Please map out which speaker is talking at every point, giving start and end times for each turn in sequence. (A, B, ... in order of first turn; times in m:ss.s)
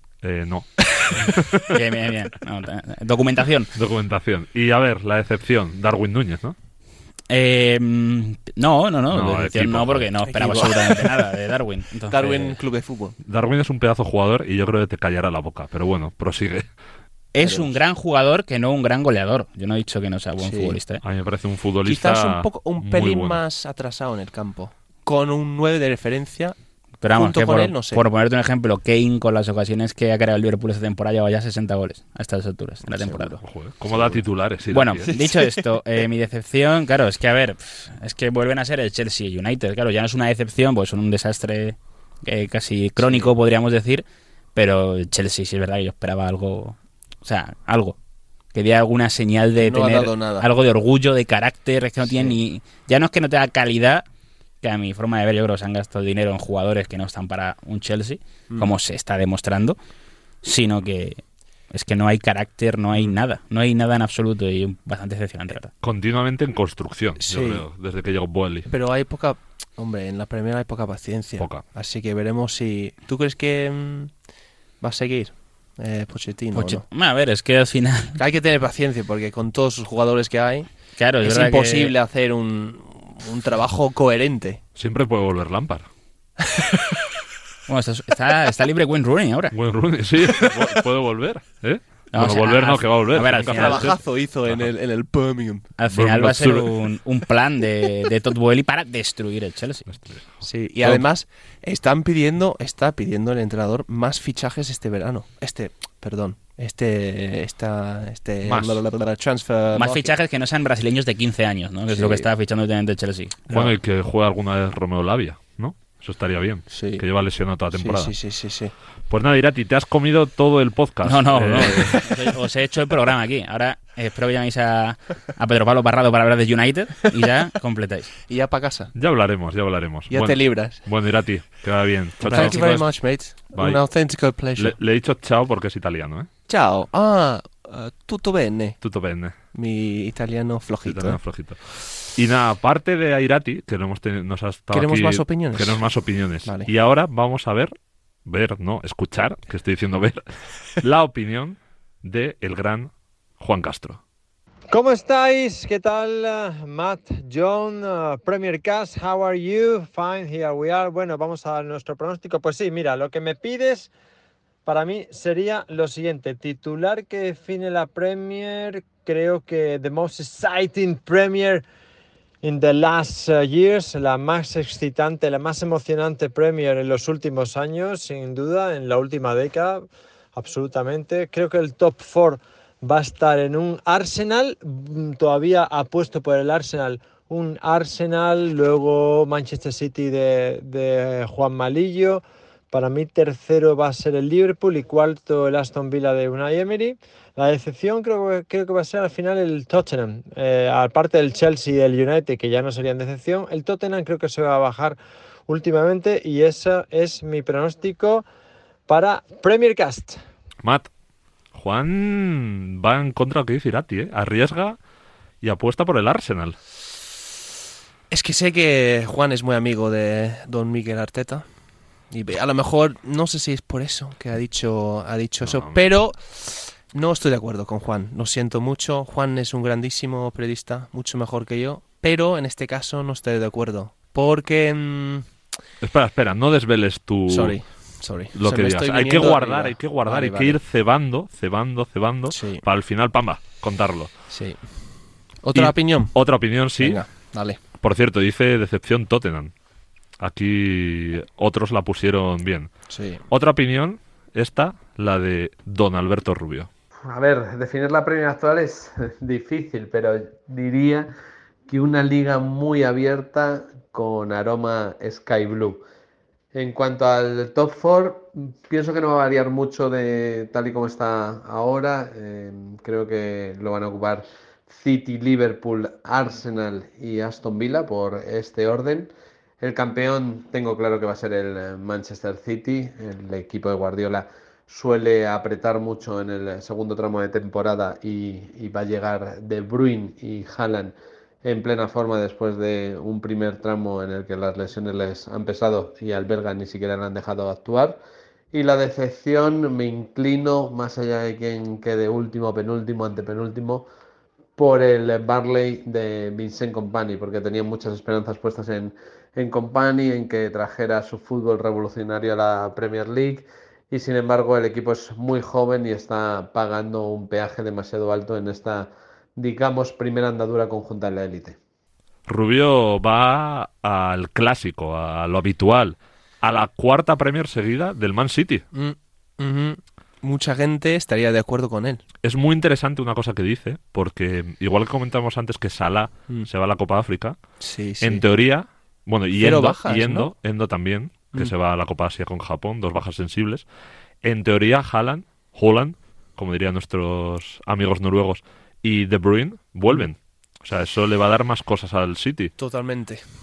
0:00.2-0:01.8 A
0:01.0-0:01.3 B
0:01.7-0:03.7 C
0:03.7-0:06.6 A
0:07.3-0:12.6 C
0:09.1-0:10.1 A
0:10.2-0:11.2 B
0:12.1-0:13.1 B
0:13.2-0:16.6 A
0:17.3-0:21.0 C
0:17.4-0:17.7 B
0:20.4-0:20.8 B
0:21.0-0:23.4 A
0:21.8-0:26.6 B
0:27.0-0:33.4 C
0:27.1-0:28.0 B
0:32.9-0:33.4 B
0:33.4-0:35.1 A
0:33.9-0:34.2 B
0:34.7-0:48.0 C
0:35.1-0:35.6 B
0:43.0-0:43.3 B
0:48.5-0:54.0 C
0:49.6-0:50.5 B
0:52.0-0:52.3 B
0:54.6-0:59.8 C
1:00.4-1:05.7 C
1:05.8-1:08.7 A
1:07.2-1:07.6 B
1:08.7-1:14.1 B
1:14.8-1:16.8 B
1:16.5-1:18.2 C
1:18.2-1:20.7 B
1:21.0-1:21.9 C
1:21.2-1:24.6 B
1:24.8-1:25.8 A
1:26.5-1:26.9 B
1:27.7-1:29.5 C
1:29.5-1:34.0 A
1:32.1-1:33.9 C
1:33.4-1:35.7 B
1:35.8-1:39.8 C
1:35.9-1:36.7 A
1:39.9-1:40.2 A
1:40.4-1:50.1 B
1:48.4-1:48.8 A
1:49.7-1:53.5 C
1:51.9-1:52.3 B
1:53.5-1:58.1 A
1:56.7-1:57.0 B
1:57.7-1:58.7 B
1:59.1-2:02.0 A
2:01.0-2:08.1 C
2:01.8-2:02.0 B
2:08.3-2:08.9 B
2:08.9-2:13.8 A
2:10.1-2:10.8 B
2:12.2-2:14.7 B
2:12.3-2:12.6 C
2:14.6-2:16.3 A
2:16.5-2:18.8 B
2:18.8-2:19.3 A
2:19.5-2:21.2 B
2:20.8-2:21.6 A
2:22.1-2:27.7 A
2:24.7-2:25.8 B
2:26.4-2:26.7 B
2:28.2-2:30.2 A
2:30.8-2:34.0 A
2:34.7-2:43.9 D
2:44.6-2:51.6 D
2:52.4-3:28.2 D
3:28.9-3:30.2 D
3:30.6-3:30.9 A
3:31.5-3:34.8 A
3:35.4-3:36.6 A
3:38.1-3:41.4 B
3:42.1-3:55.3 B
3:45.4-3:45.8 A
3:55.8-3:57.6 A
3:57.3-4:00.6 B
3:58.3-4:04.1 A
4:02.3-4:02.6 B
4:04.3-4:04.6 B
4:05.4-4:06.1 B
4:05.5-4:07.0 A
4:06.8-4:07.6 B
4:07.8-4:09.5 A
4:10.2-4:12.7 A
4:12.9-4:13.2 B
4:13.3-4:16.7 A
4:17.0-4:21.1 E
4:21.7-4:25.8 E
4:26.5-4:58.0 E
4:58.5-5:03.9 E
5:04.6-5:21.6 E
5:22.3-5:28.6 A
5:28.7-5:32.0 B
5:32.2-5:37.4 A
5:37.6-5:38.2 B
5:38.0-5:43.6 A
5:39.4-5:40.3 B
5:44.2-5:52.5 A
5:52.6-5:53.2 B